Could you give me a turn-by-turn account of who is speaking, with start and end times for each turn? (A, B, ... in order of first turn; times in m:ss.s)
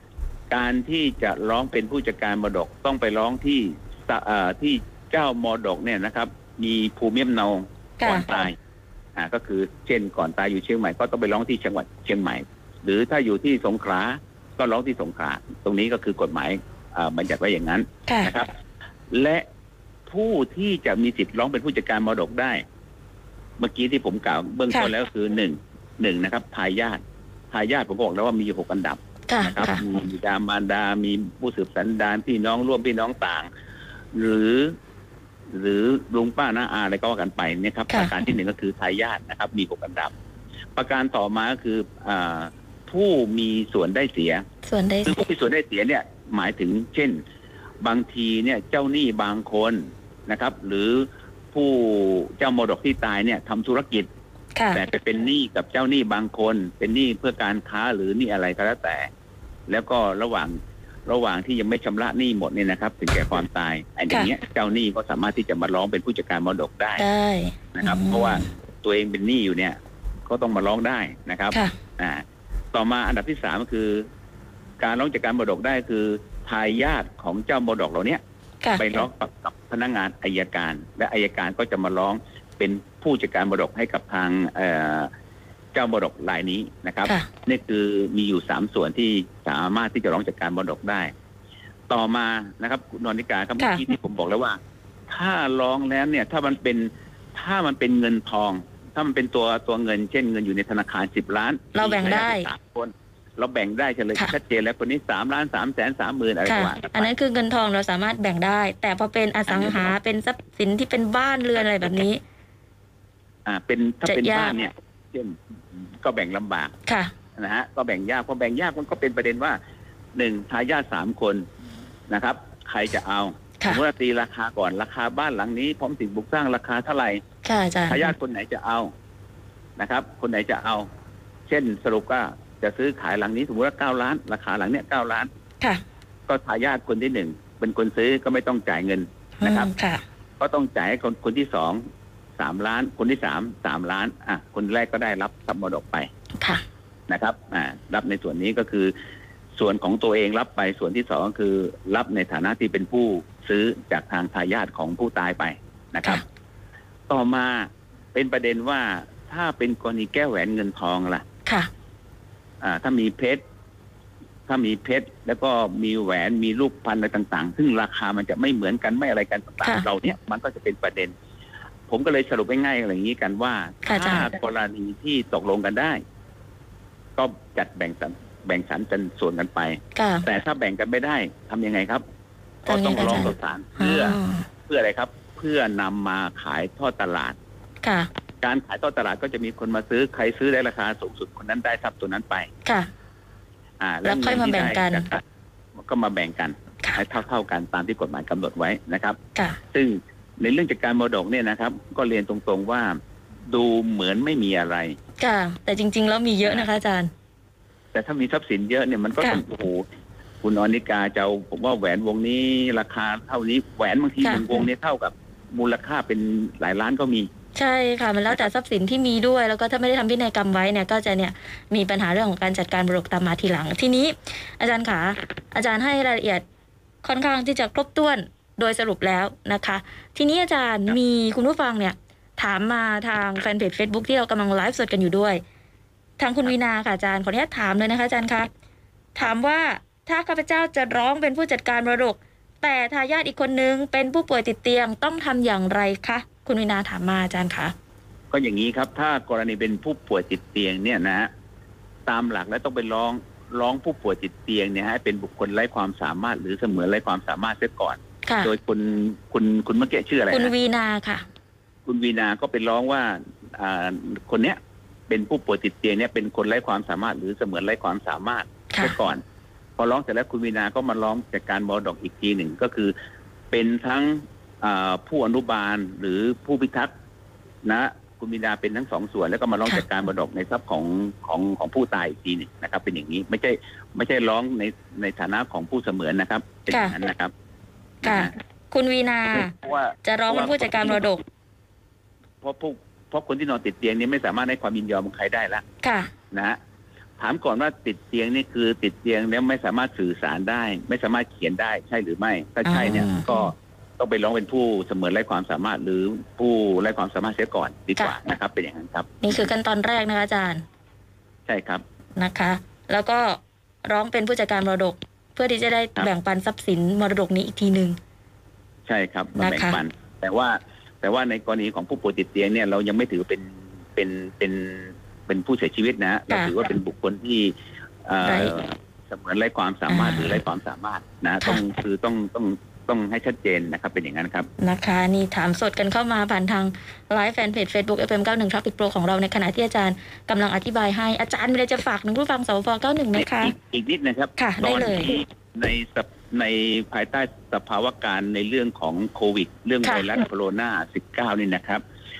0:00.5-0:08.6 A
0:08.0-0:08.2 B
0:09.2-0:18.5 A
0:19.1-0:19.4 A
0:20.1-0:22.6 A
0:23.6-0:33.5 A
0:29.3-0:29.8 B
0:34.1-0:34.7 A
0:35.5-0:40.1 A
0:37.9-0:38.1 B
0:40.8-0:44.4 A
0:44.6-0:45.2 B
0:45.0-0:47.2 A
0:47.8-0:54.1 A
0:54.6-0:54.8 B
0:54.7-0:59.1 A
0:59.7-1:07.0 A
1:07.0-1:08.4 B
1:07.7-1:14.0 A
1:14.8-1:18.2 A
1:18.6-1:19.0 B
1:18.8-1:25.1 A
1:25.7-1:31.1 A
1:31.9-1:34.6 A
1:35.1-1:47.1 A
1:41.7-1:42.4 B
1:46.4-1:52.2 B
1:49.5-1:49.9 A
1:53.4-1:56.7 A
1:54.1-1:54.5 B
1:56.9-1:57.1 B
1:57.4-1:59.6 A
2:00.1-2:01.4 A
2:02.1-2:07.2 A
2:07.4-2:08.1 B
2:07.9-2:08.9 A
2:09.8-2:10.9 A
2:11.5-2:15.3 A
2:16.3-2:19.7 A
2:19.4-2:20.0 B
2:20.4-2:21.8 A
2:22.4-2:26.1 A
2:27.1-2:28.9 A
2:29.6-2:36.2 A
2:37.1-2:41.2 A
2:42.6-2:43.4 A
2:44.5-2:51.1 A
2:51.9-2:56.0 A
2:53.8-2:54.3 B
2:57.2-3:02.0 A
3:00.0-3:00.2 B
3:02.6-3:04.4 B
3:02.7-3:07.4 A
3:07.8-3:08.1 B
3:08.4-3:12.5 A
3:13.8-3:15.2 A
3:14.0-3:15.0 B
3:15.8-3:19.2 A
3:19.7-3:23.0 A
3:23.5-3:25.0 A
3:25.2-3:27.1 B
3:27.9-3:29.8 A
3:30.4-3:37.3 A
3:34.2-3:34.6 B
3:37.6-3:46.4 B
3:47.0-3:55.4 B
3:56.2-3:58.5 B
3:59.1-4:07.7 B
4:08.3-4:11.3 A
4:12.0-4:20.5 A
4:20.3-4:21.2 B
4:21.8-4:24.6 A
4:25.1-4:29.2 A
4:29.8-4:32.9 A
4:33.5-4:36.9 A
4:37.6-4:47.3 A
4:46.7-4:46.9 B
4:48.0-4:48.3 A
4:48.0-4:49.5 B
4:49.3-4:51.1 A
4:50.0-4:51.2 B
4:52.4-4:55.6 A
4:55.8-4:56.1 B
4:56.3-4:56.6 A
4:57.2-5:09.5 A
5:02.6-5:03.3 B
5:09.2-5:10.6 B
5:11.5-5:11.8 A
5:12.2-5:18.0 B
5:18.8-5:27.5 A
5:19.4-5:19.8 B
5:28.0-5:34.5 A
5:28.2-5:28.5 B
5:29.9-5:30.4 B
5:34.6-5:43.5 B
5:43.2-5:51.8 A
5:44.4-5:45.1 B